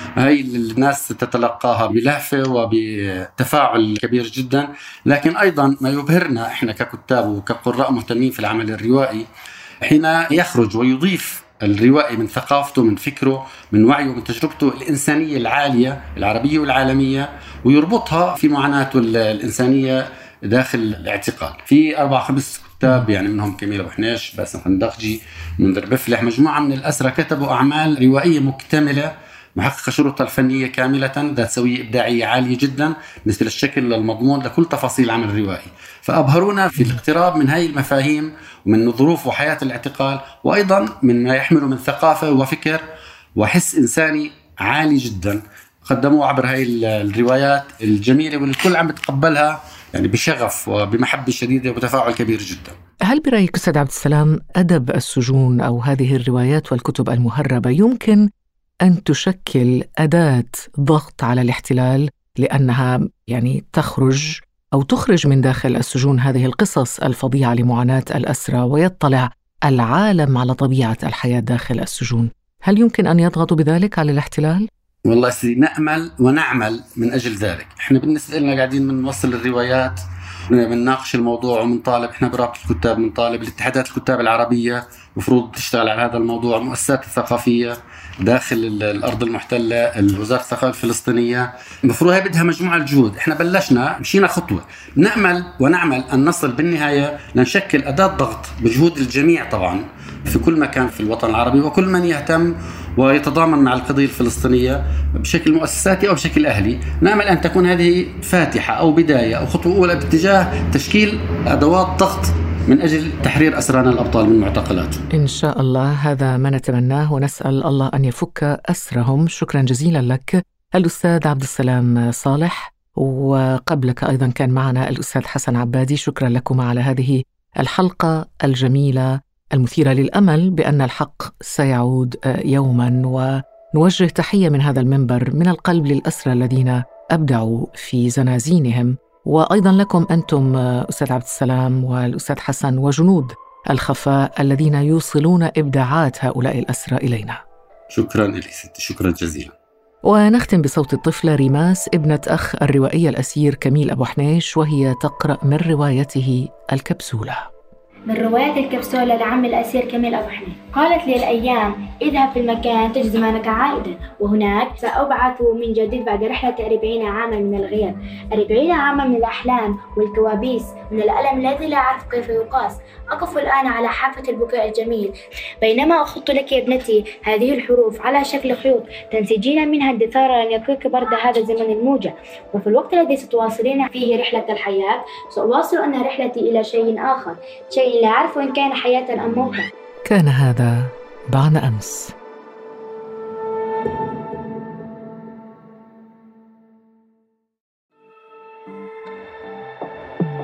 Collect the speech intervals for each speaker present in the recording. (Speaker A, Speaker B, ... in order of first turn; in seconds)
Speaker A: 0.2-9.2, 9.8-42.8, 43.4-52.7, 75.0-115.0, 147.9-149.5
Speaker B: 53.0-58.2, 58.8-74.7, 115.1-147.4, 150.0-157.5, 190.1-192.1
Speaker C: 158.1-189.7